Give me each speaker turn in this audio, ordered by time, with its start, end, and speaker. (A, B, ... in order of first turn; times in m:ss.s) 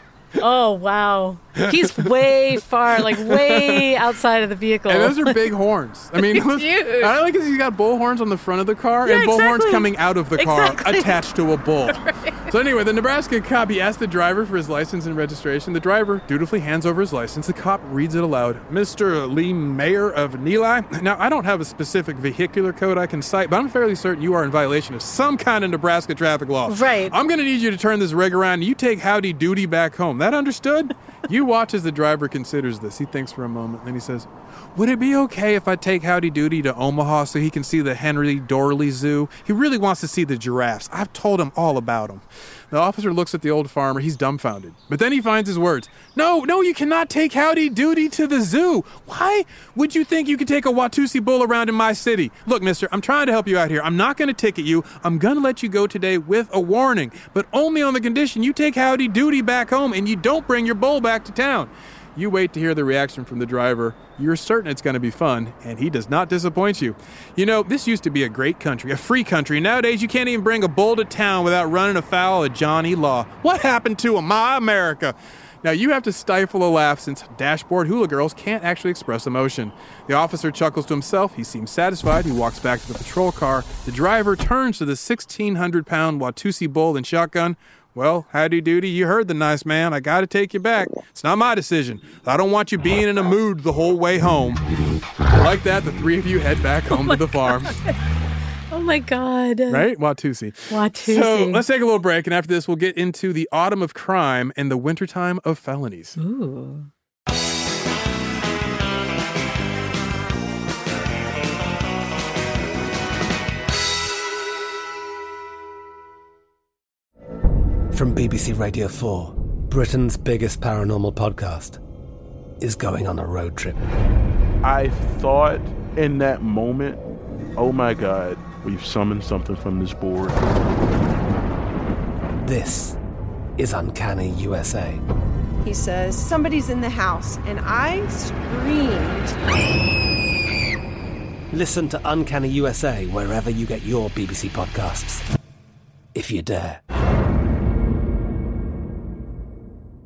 0:00.4-0:05.5 A
0:01.6-0:02.3 B
0:03.0-0:04.0 B
0:04.9-1:34.6 B
0:06.2-0:07.2 A
0:09.0-0:11.2 A
0:11.9-0:12.5 A
0:26.6-0:27.1 A
1:35.3-1:37.7 B
1:36.9-1:37.9 A
1:38.7-1:39.8 A
1:39.7-1:46.2 B
1:40.7-1:41.6 A
1:46.2-1:46.9 A
1:57.9-2:01.8 C
2:02.6-2:03.8 C
2:04.6-2:07.0 D
2:07.6-2:10.4 D
2:12.4-2:13.0 C
2:13.6-2:15.0 C
2:15.6-2:19.3 E
2:21.5-2:25.2 C
2:26.1-2:26.8 C